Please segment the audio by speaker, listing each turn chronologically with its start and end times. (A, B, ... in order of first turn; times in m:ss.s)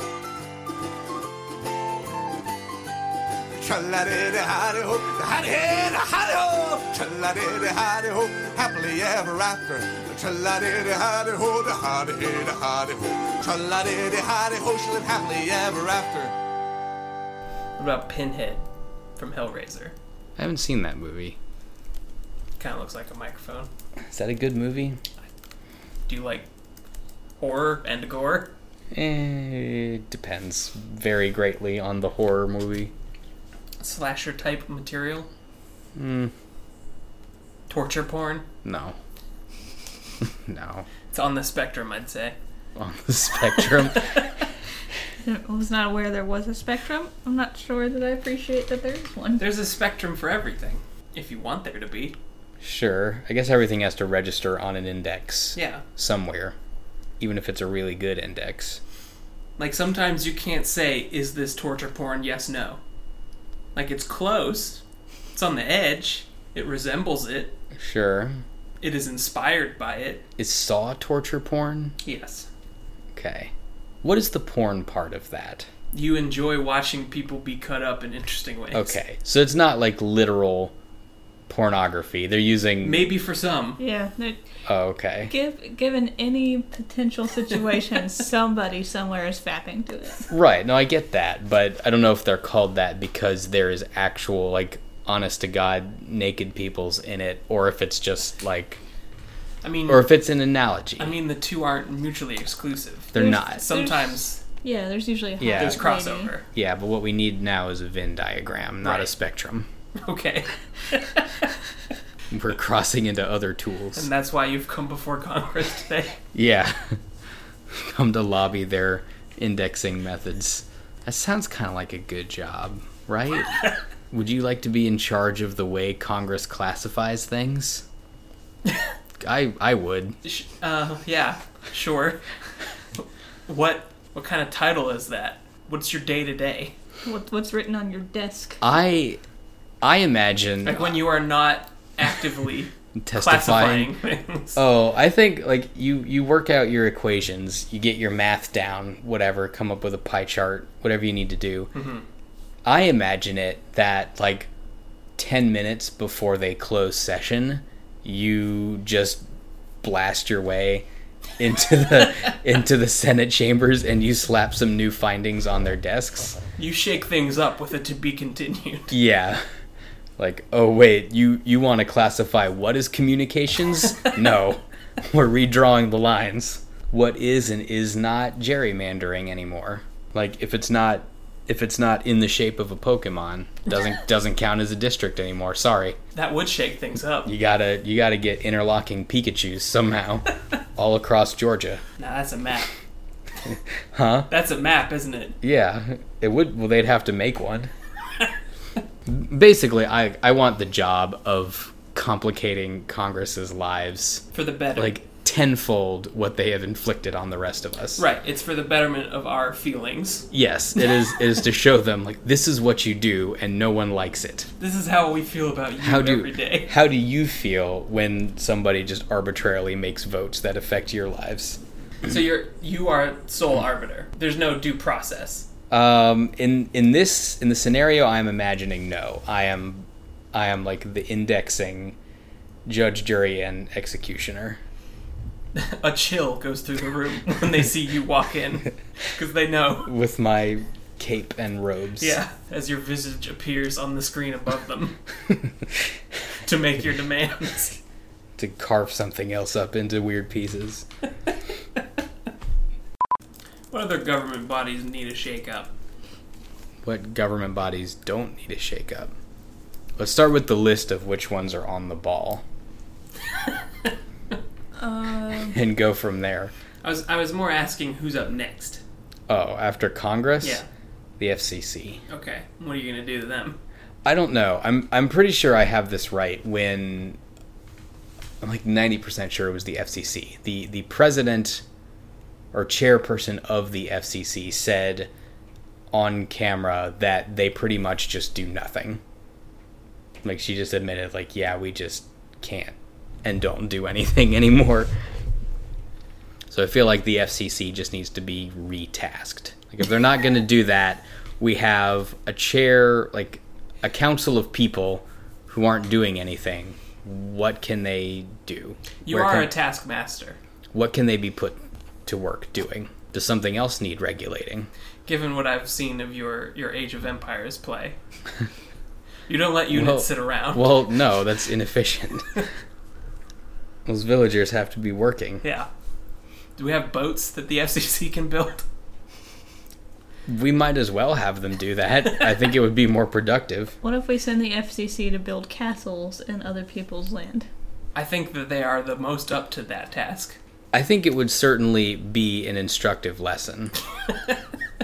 0:03.6-0:16.3 A
0:17.8-0:18.6 B
0:19.2-0:19.9 B
0:20.4-0:21.4 C
0:22.6-0:23.7 B
0:24.1-0:25.0 C
0:26.1-0:26.5 B
0:27.4-0:28.5 B
0:28.9-0:32.9 C
0:33.8-0:35.3 B
0:36.0-0:36.3 C
0:37.7-0:38.5 B
0:38.6-0:39.0 C
0:40.2-0:40.9 C
0:41.1-0:42.4 B
0:42.8-0:44.2 C
0:44.0-0:44.2 B
0:45.2-0:49.5 D
0:49.4-0:52.2 B
0:52.6-0:56.6 C
0:55.6-0:55.8 B
0:57.2-0:58.8 C
0:59.6-1:02.8 B
1:03.8-1:04.8 B
1:05.3-1:07.5 B
1:07.8-1:08.4 C
1:08.8-1:10.2 B
1:10.4-1:12.0 C
1:12.0-1:12.5 B
1:13.1-1:13.5 C
1:14.0-1:15.7 C
1:15.9-1:19.0 B
1:18.7-1:20.7 C
1:21.5-1:23.1 C
1:22.8-1:23.8 B
1:23.8-1:24.4 D
1:24.7-1:25.3 C
1:25.3-1:30.3 D
1:30.3-1:38.8 C
1:39.6-1:40.1 B
1:39.9-1:41.2 C
1:41.0-1:44.4 B
1:43.1-1:43.7 C
1:43.2-1:46.3 D
1:45.4-1:45.8 C
1:45.6-1:46.4 B
1:46.5-1:49.7 C
1:48.8-1:49.1 B
1:50.0-1:51.5 B
1:52.3-1:54.1 C
1:54.0-1:56.2 B
1:56.3-1:57.0 C
1:57.7-2:07.8 C
2:09.2-2:10.2 C
2:10.2-2:12.2 B
2:13.0-2:16.7 B
2:17.0-2:18.6 D
2:18.6-2:19.2 C
2:19.8-2:21.0 C
2:20.6-2:24.6 B
2:23.0-2:23.9 C
2:24.6-2:31.7 C
2:31.7-2:32.0 B
2:32.6-2:34.5 C
2:35.2-2:39.2 C
2:39.8-2:40.9 C
2:41.4-2:46.4 C
2:46.6-2:49.0 B
2:48.9-2:49.4 C
2:50.2-3:06.0 C
3:06.1-3:07.3 B
3:07.2-3:11.8 C
3:12.0-3:12.7 B
3:13.4-3:14.3 C
3:14.3-3:15.4 B
3:15.4-3:17.7 C
3:19.1-3:24.2 C
3:24.3-3:25.0 B
3:24.8-3:28.0 C
3:28.0-3:30.3 B
3:30.3-3:34.5 C
3:34.6-3:36.7 B
3:35.8-3:41.6 C
3:42.0-3:45.5 B
3:45.7-3:52.0 C
3:52.7-3:54.6 C
3:55.5-3:59.9 B
3:59.9-4:02.2 C
4:02.0-4:05.0 B
4:06.4-4:07.8 B
4:08.4-4:10.8 C
4:13.7-4:15.7 B
4:16.8-4:19.1 C
4:20.0-4:22.4 C
4:24.8-4:25.6 D
4:25.5-4:26.5 C
4:26.8-4:28.8 B
4:29.3-4:30.6 C
4:30.4-4:30.7 B
4:31.2-4:32.0 C
4:32.1-4:33.6 B
4:34.0-4:37.2 C
4:38.4-4:41.6 C
4:42.5-4:45.1 C
4:45.9-4:49.0 C
4:50.2-4:54.9 C
4:56.5-5:09.5 C
5:09.1-5:10.4 B
5:10.7-5:14.7 C
5:15.1-5:18.0 B
5:19.3-5:20.8 B
5:19.7-5:22.4 C
5:23.9-5:25.4 C
5:25.4-5:25.7 B
5:26.6-5:28.6 B
5:30.3-5:33.8 C
5:33.8-5:37.5 D
5:38.0-5:40.4 B
5:40.7-5:43.8 C